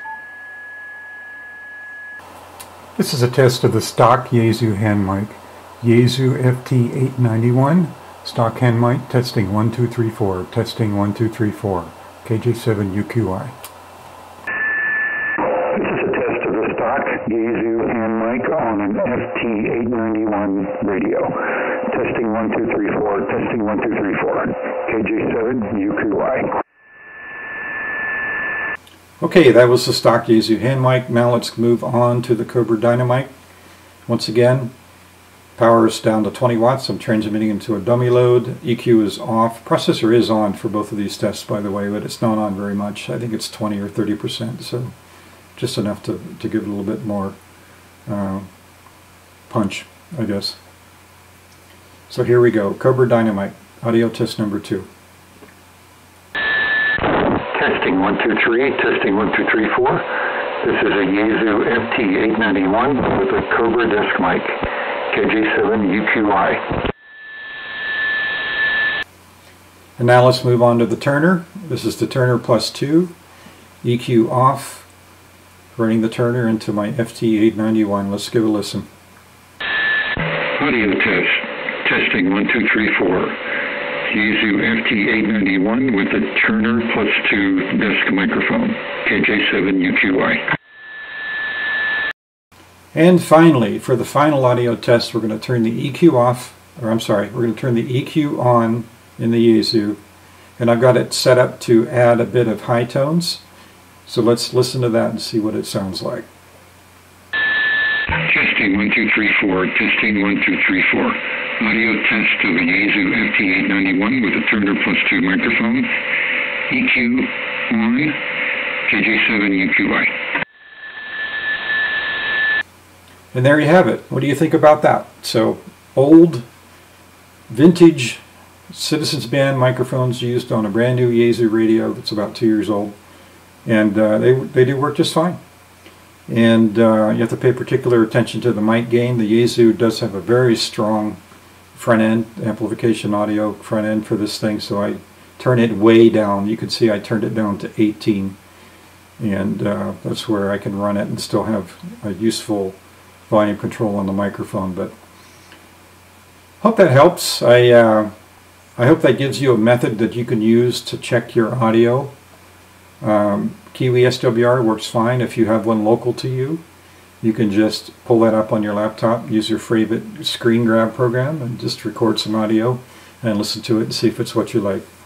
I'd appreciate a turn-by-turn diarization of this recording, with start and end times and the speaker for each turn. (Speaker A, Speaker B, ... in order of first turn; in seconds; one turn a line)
Speaker A: 3.0-13.5
Speaker B: 15.7-26.5
Speaker A: 29.2-33.3
Speaker A: 34.1-34.7
Speaker A: 35.6-44.9
Speaker A: 45.6-47.4
Speaker A: 48.1-48.5
Speaker A: 49.5-50.6
Speaker A: 52.1-54.9
Speaker B: 57.4-60.0
Speaker B: 60.6-64.6
Speaker B: 65.1-66.7
Speaker A: 70.0-73.1
Speaker A: 73.8-74.9
Speaker A: 75.7-78.9
Speaker B: 80.6-83.4
Speaker B: 84.1-90.4
Speaker A: 92.9-100.0
Speaker A: 100.6-103.4
Speaker A: 104.0-106.2
Speaker B: 108.2-115.9
Speaker B: 116.7-118.2
Speaker B: 118.9-120.1
Speaker A: 123.3-126.4
Speaker A: 127.5-132.9
Speaker A: 133.6-135.4
Speaker A: 136.3-141.2
Speaker A: 141.7-148.4
Speaker A: 149.2-152.8
Speaker A: 153.3-154.9
Speaker A: 156.6-158.1
Speaker A: 158.8-162.1
Speaker A: 163.0-166.6
Speaker A: 167.2-174.8